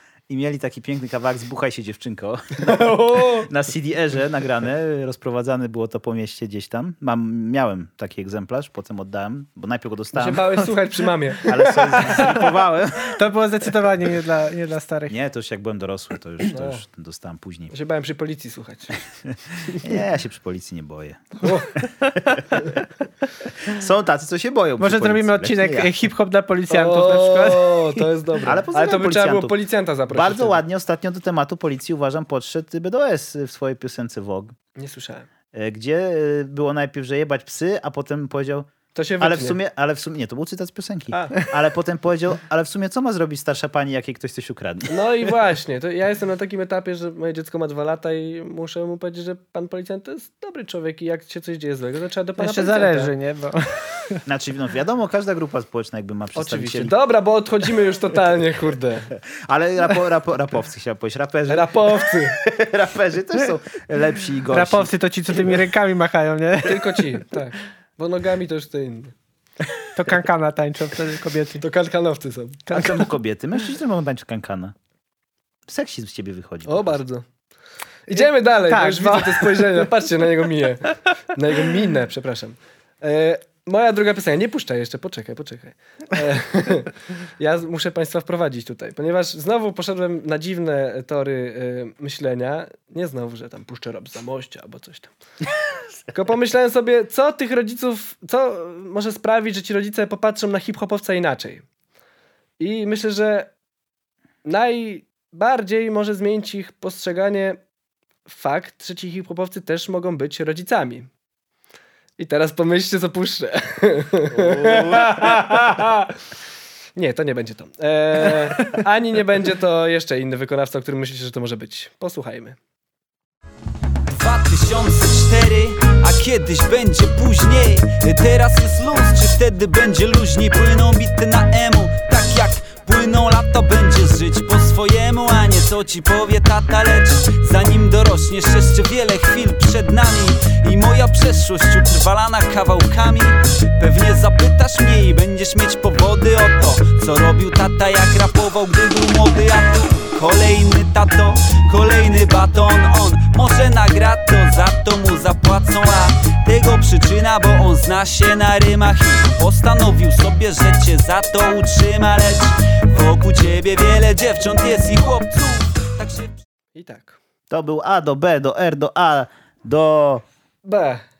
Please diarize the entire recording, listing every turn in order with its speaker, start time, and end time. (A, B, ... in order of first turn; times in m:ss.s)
0:00.3-0:10.6 A
0:02.6-0:03.5 B
0:10.1-0:12.4 B
0:11.5-0:13.2 A
0:13.1-0:15.2 C
0:15.1-0:17.7 A
0:16.5-0:16.8 B
0:17.7-0:19.0 B
0:19.3-0:21.5 A
0:21.4-0:21.7 B
0:23.7-0:26.0 A
0:24.8-0:28.0 C
0:26.7-0:30.6 B
0:28.4-0:29.5 A
0:30.1-0:34.5 A
0:34.8-0:35.3 B
0:35.5-0:45.3 A
0:38.9-0:39.6 B
0:41.1-0:41.4 B
0:44.9-0:53.1 B
0:52.4-0:54.2 C
0:54.2-0:56.9 A
0:56.3-0:59.1 B
0:59.3-1:05.5 A
1:01.5-1:02.4 B
1:04.5-1:07.2 C
1:06.6-1:09.1 B
1:10.0-1:11.6 C
1:11.6-1:12.6 B
1:12.7-1:13.0 C
1:12.7-1:14.7 A
1:15.7-1:17.0 A
1:16.6-1:17.2 B
1:18.1-1:35.1 B
1:18.1-1:19.9 C
1:36.1-1:41.6 B
1:42.6-1:43.5 B
1:44.4-1:47.6 B
1:48.3-1:51.1 B
1:52.2-1:56.1 B
1:54.3-1:55.5 A
1:57.0-2:02.6 B
2:04.1-2:46.4 D
2:46.7-2:47.2 B
2:47.5-2:50.2 A
2:50.6-2:51.0 B